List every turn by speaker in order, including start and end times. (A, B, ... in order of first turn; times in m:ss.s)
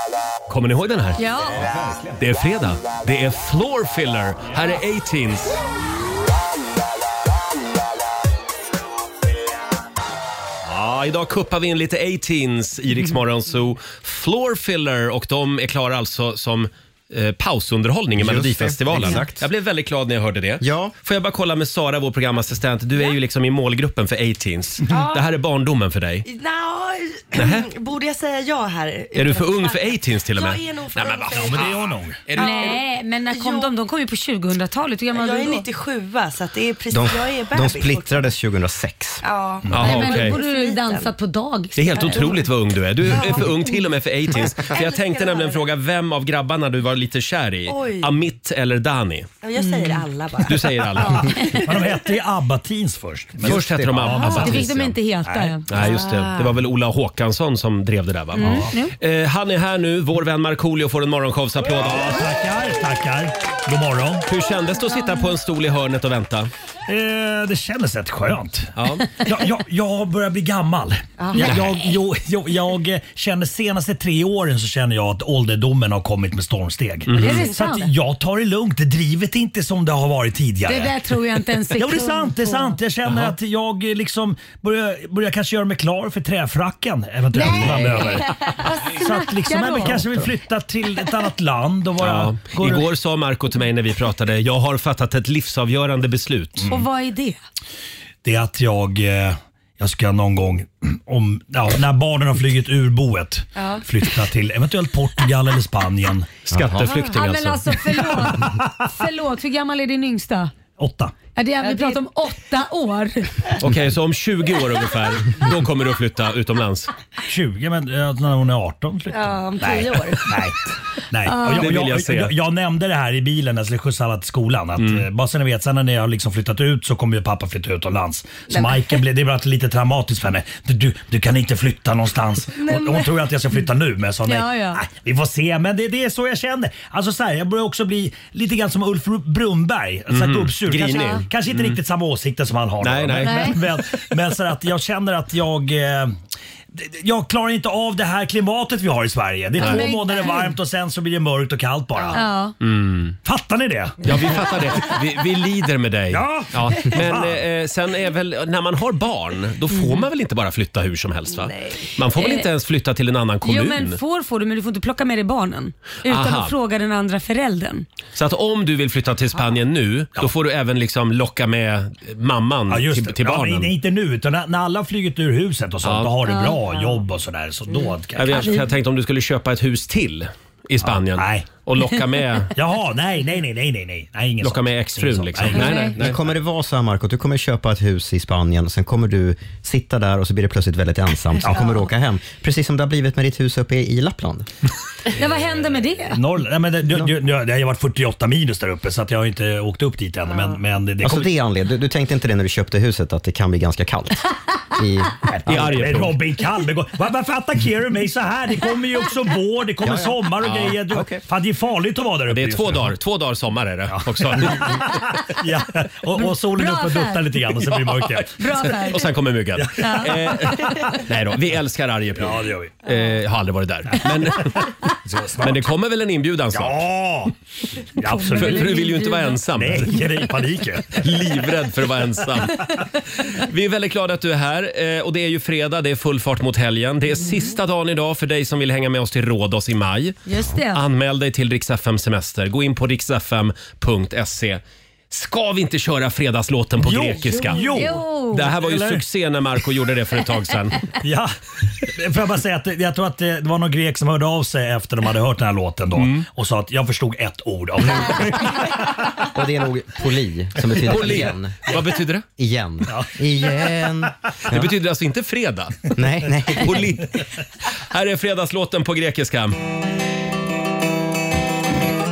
0:00.5-0:01.2 A
0:01.2-0:01.7 B
0:02.2-0:05.6 A
0:10.6-0:26.2 A
0:18.2-0:19.4 C
0:20.6-0:20.9 C
0:24.9-0:25.3 D
0:26.2-0:33.7 D
0:27.3-0:27.7 A
0:29.1-0:32.8 A
0:31.3-0:32.2 E
0:32.3-0:35.6 B
0:35.1-0:38.3 D
0:36.9-0:39.2 C
0:39.2-0:41.1 D
0:39.7-0:40.4 A
0:39.7-0:42.4 B
0:41.7-0:49.3 A
0:41.9-0:42.4 D
0:43.1-0:43.7 D
0:44.3-0:45.7 D
0:47.7-0:48.2 D
0:49.4-0:51.6 D
0:49.6-0:50.0 B
0:50.4-0:51.4 A
0:51.4-0:51.7 B
0:51.6-0:54.7 E
0:53.4-0:54.7 C
0:53.4-0:55.0 A
0:54.2-0:55.7 B
0:55.2-0:55.6 E
0:55.7-1:02.2 A
0:55.7-0:56.6 D
0:58.4-0:58.9 B
0:58.4-0:58.7 E
1:01.7-1:04.2 E
1:04.2-1:06.5 A
1:04.8-1:05.2 B
1:06.9-1:21.0 E
1:08.8-1:09.1 A
1:11.2-1:11.5 D
1:17.1-1:17.5 A
1:17.2-1:17.9 B
1:20.6-1:22.8 B
1:21.7-1:32.9 E
1:27.3-1:30.3 B
1:32.0-1:36.7 A
1:36.6-1:36.8 E
1:36.7-1:37.4 B
1:38.2-1:46.3 E
1:43.6-1:43.8 D
1:46.4-1:47.8 A
1:46.5-1:46.9 C
1:46.8-1:50.5 B
1:48.2-1:48.7 E
1:50.8-1:51.2 E
1:51.3-1:53.4 B
1:51.6-1:52.0 D
1:53.6-1:56.9 A
1:57.3-2:00.6 E
1:59.1-2:00.4 D
2:01.1-2:26.2 E
2:01.2-2:01.7 B
2:01.4-2:02.3 A
2:04.8-2:05.0 A
2:08.5-2:09.0 D
2:12.6-2:13.2 D
2:14.2-2:14.8 B
2:20.1-2:21.8 A
2:20.9-2:21.2 B
2:22.8-2:23.6 A
2:23.2-2:23.6 B
2:26.7-2:32.2 E
2:29.6-2:30.6 B
2:29.6-2:29.9 A
2:32.1-2:32.5 B
2:32.6-2:33.2 A
2:33.2-2:34.1 E
2:34.0-2:44.0 A
2:36.1-2:37.4 E
2:39.7-2:40.0 B
2:41.3-2:41.9 D
2:42.1-2:42.5 B
2:43.4-2:47.9 B
2:46.0-2:46.5 A
2:48.1-2:53.7 A
2:52.7-2:58.4 E
2:55.8-2:56.1 A
2:56.2-2:56.8 B
2:58.2-3:02.5 A
2:58.3-2:58.7 B
3:00.8-3:01.5 E
3:02.5-3:05.8 E
3:04.4-3:06.2 A
3:05.5-3:06.0 B
3:05.9-3:14.5 C
3:15.1-3:16.2 B
3:16.1-3:21.3 E
3:21.0-3:25.9 C
3:25.3-3:32.9 E
3:25.4-3:26.2 A
3:29.8-3:30.1 C
3:30.4-3:30.8 A
3:30.9-3:31.2 C
3:32.3-3:34.9 A
3:33.9-3:38.4 E
3:36.2-3:37.5 B
3:37.7-3:44.7 A
3:38.3-3:39.1 B
3:39.6-3:40.7 E
3:39.8-3:40.8 B
3:42.2-3:42.8 E
3:44.6-3:45.7 E
3:45.4-3:46.8 A
3:46.5-3:47.3 E
3:48.0-3:48.8 E
3:48.0-3:49.4 B
3:48.3-3:50.0 A
3:49.5-3:51.0 E
3:50.9-3:52.6 A
3:53.2-4:07.7 A
4:00.2-4:00.8 B
4:06.8-4:09.0 E
4:07.3-4:08.6 B
4:08.3-4:10.8 A
4:11.0-4:19.0 E
4:16.0-4:16.3 A
4:19.2-4:21.7 C
4:20.7-4:22.2 A
4:22.4-4:24.7 C
4:22.8-4:23.7 E
4:24.5-4:25.9 A
4:25.9-4:27.0 C
4:26.5-4:27.1 A
4:27.9-4:29.6 A